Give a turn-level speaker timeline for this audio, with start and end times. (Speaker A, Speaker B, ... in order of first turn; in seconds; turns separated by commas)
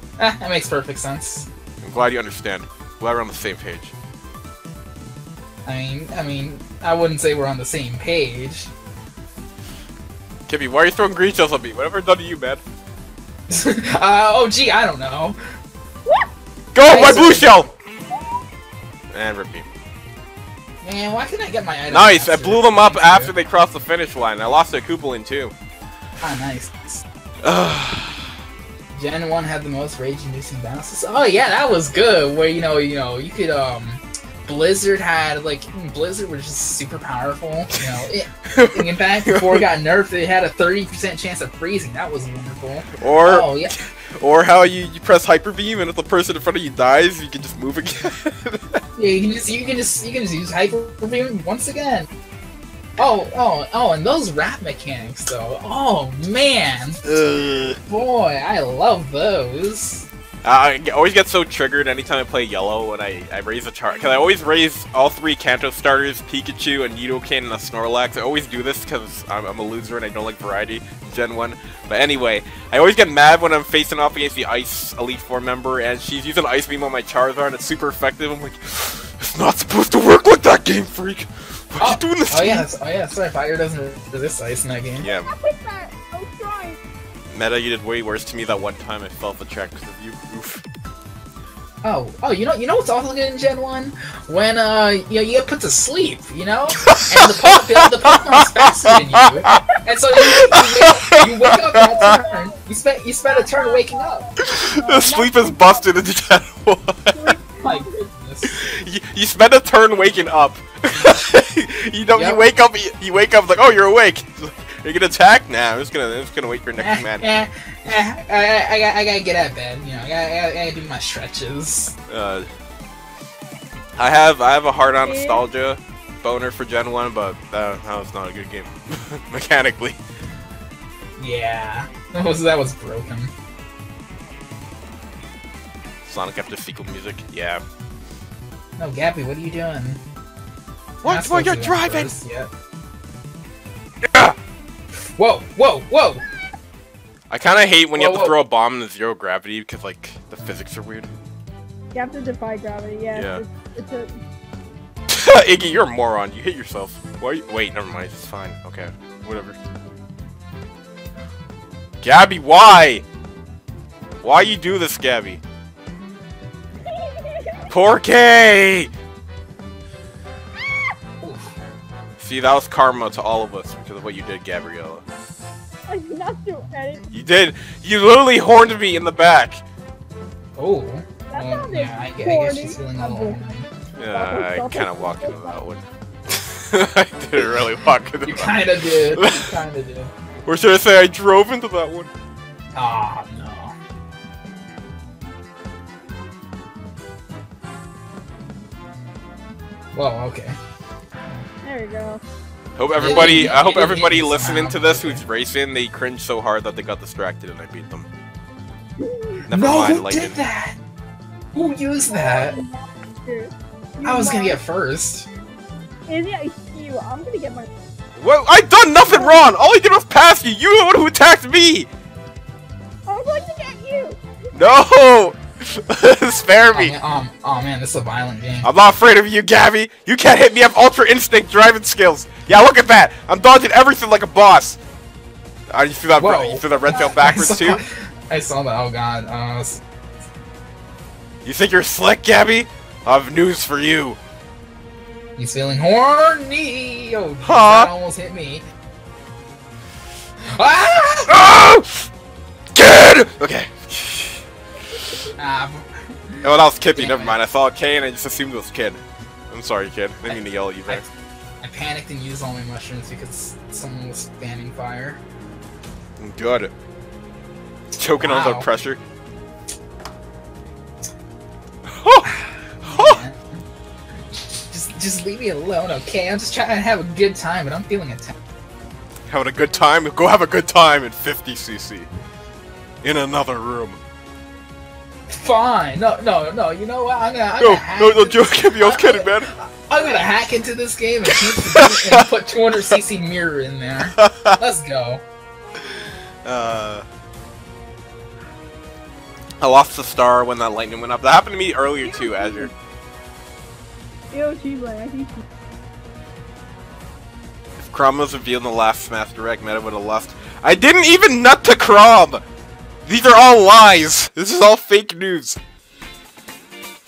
Speaker A: 0.2-1.5, Speaker B: 1.8-3.9, Speaker A: 5.7-8.7, Speaker B: 10.5-12.6, Speaker A: 13.5-15.4, Speaker B: 16.7-17.7, Speaker A: 16.8-17.7, Speaker C: 18.1-18.4, Speaker B: 19.1-19.6, Speaker A: 20.8-23.3, Speaker B: 21.9-25.5, Speaker A: 26.2-27.0, Speaker B: 27.4-28.3, Speaker A: 28.9-43.8, Speaker B: 37.7-39.7, Speaker B: 43.0-48.8, Speaker A: 49.0-52.1, Speaker A: 53.0-57.0, Speaker B: 57.0-57.8, Speaker A: 57.9-60.1, Speaker B: 60.4-82.7, Speaker A: 81.8-85.0, Speaker B: 85.0-85.3, Speaker C: 85.1-86.8, Speaker B: 87.3-90.6, Speaker A: 91.8-104.2, Speaker B: 96.8-99.6, Speaker B: 100.2-102.1, Speaker C: 102.0-102.5, Speaker C: 103.3-105.9, Speaker B: 104.4-107.4, Speaker C: 107.1-107.9, Speaker A: 107.6-108.5, Speaker B: 108.5-117.3, Speaker A: 112.1-112.4, Speaker A: 116.8-121.9, Speaker B: 122.1-122.5, Speaker B: 124.0-130.0, Speaker C: 125.0-125.4, Speaker A: 131.2-133.3, Speaker B: 136.0-137.6, Speaker A: 138.8-140.0, Speaker B: 141.0-142.1, Speaker A: 141.0-142.5, Speaker B: 144.0-144.3, Speaker A: 145.2-146.2, Speaker B: 147.3-151.1, Speaker A: 147.9-148.3, Speaker C: 151.9-154.2, Speaker B: 153.1-153.4, Speaker B: 155.1-159.6, Speaker B: 162.0-163.0, Speaker B: 164.2-165.4, Speaker C: 166.8-167.7, Speaker B: 167.7-168.9, Speaker A: 171.2-171.5, Speaker B: 172.2-175.0, Speaker C: 175.9-177.1, Speaker B: 177.1-179.6, Speaker A: 180.6-183.7, Speaker C: 181.3-183.4, Speaker B: 184.0-189.6, Speaker C: 184.1-185.6, Speaker A: 188.2-190.1, Speaker B: 190.4-192.1, Speaker A: 192.7-193.7, Speaker A: 199.9-200.6, Speaker C: 201.6-202.2, Speaker B: 202.8-208.1, Speaker A: 203.0-205.2, Speaker C: 209.0-209.4, Speaker B: 209.5-210.4, Speaker A: 209.5-210.8, Speaker A: 211.5-212.6, Speaker C: 212.1-214.6, Speaker A: 214.0-215.3, Speaker C: 216.1-217.7, Speaker B: 218.2-221.9, Speaker C: 219.1-219.4, Speaker C: 223.1-224.2, Speaker B: 224.5-226.9, Speaker A: 226.7-228.7, Speaker B: 228.6-234.8, Speaker B: 235.7-237.8, Speaker A: 236.2-239.8, Speaker B: 241.4-244.2, Speaker A: 245.4-248.6, Speaker B: 247.4-247.9, Speaker A: 250.4-251.3, Speaker B: 251.3-252.1, Speaker B: 252.7-254.4, Speaker A: 255.4-257.4, Speaker B: 256.4-261.0, Speaker A: 260.3-261.1, Speaker A: 261.6-265.2, Speaker B: 266.2-266.7, Speaker B: 268.0-269.0, Speaker A: 268.2-268.7, Speaker B: 271.9-273.2, Speaker A: 272.2-273.6, Speaker A: 274.3-278.4, Speaker B: 279.3-282.1, Speaker B: 283.0-284.0, Speaker A: 285.3-295.2, Speaker B: 287.6-289.5, Speaker B: 291.3-292.3, Speaker B: 294.1-294.6, Speaker B: 295.8-297.1, Speaker B: 299.6-302.7, Speaker C: 302.0-302.7, Speaker C: 304.3-305.4, Speaker B: 307.8-312.4, Speaker B: 313.1-315.6